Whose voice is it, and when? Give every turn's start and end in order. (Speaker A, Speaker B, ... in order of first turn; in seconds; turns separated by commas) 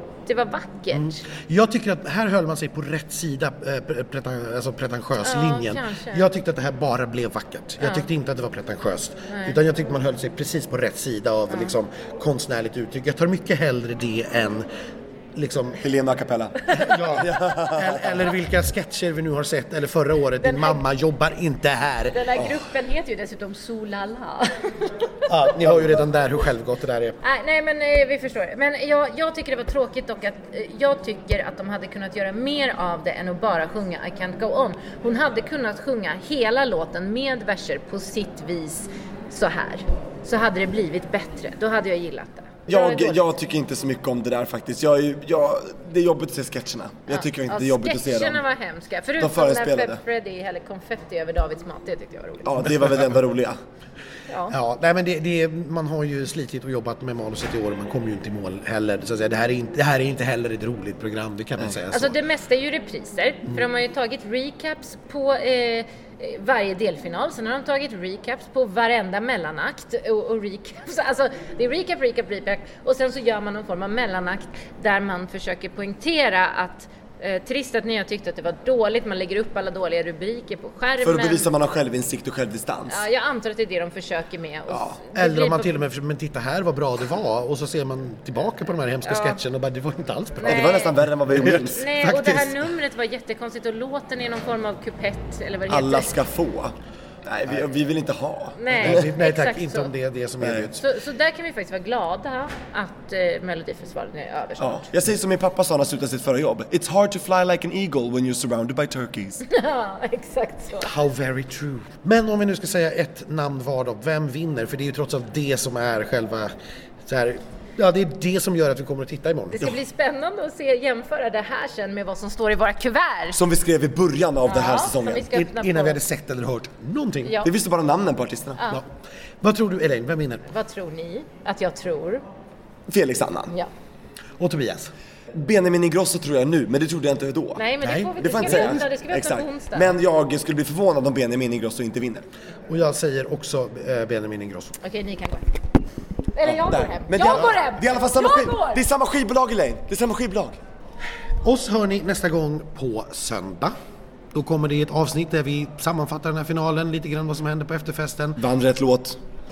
Speaker A: 0.3-1.2, Speaker B: 0.9-14.7, Speaker A: 5.2-6.3, Speaker A: 7.8-8.1, Speaker A: 9.3-9.6, Speaker B: 15.3-15.8, Speaker C: 15.8-18.1, Speaker B: 16.7-22.5, Speaker A: 20.4-20.8, Speaker A: 22.1-25.1, Speaker B: 25.3-27.2, Speaker A: 27.2-43.2, Speaker C: 42.7-48.4, Speaker A: 47.1-52.6, Speaker C: 49.2-50.0, Speaker C: 52.5-53.6, Speaker A: 54.3-54.6, Speaker B: 54.5-62.2, Speaker A: 61.9-81.5, Speaker C: 81.0-83.0, Speaker A: 82.9-85.7, Speaker C: 84.7-85.0, Speaker B: 85.2-92.6, Speaker A: 89.0-89.4, Speaker A: 90.4-90.9, Speaker C: 90.4-91.8, Speaker A: 91.7-96.1, Speaker C: 95.7-99.1, Speaker A: 98.6-99.9, Speaker B: 98.7-100.9, Speaker C: 100.4-100.7, Speaker A: 100.8-104.8, Speaker C: 104.6-109.4, Speaker A: 109.5-110.9, Speaker B: 110.8-116.5, Speaker B: 117.1-119.7, Speaker A: 119.5-123.4, Speaker C: 123.3-125.3, Speaker A: 124.5-126.0, Speaker B: 125.2-127.5, Speaker A: 127.2-127.5, Speaker C: 127.4-128.7, Speaker B: 129.4-130.5, Speaker A: 130.5-132.2, Speaker C: 132.9-133.5, Speaker B: 134.4-134.9, Speaker C: 135.3-137.6, Speaker A: 137.6-139.9, Speaker B: 137.8-138.9, Speaker C: 138.2-142.3, Speaker B: 142.7-144.8, Speaker A: 144.8-145.5, Speaker A: 146.3-148.8, Speaker C: 146.4-150.6, Speaker B: 151.4-153.8, Speaker B: 154.3-158.4, Speaker C: 158.4-159.2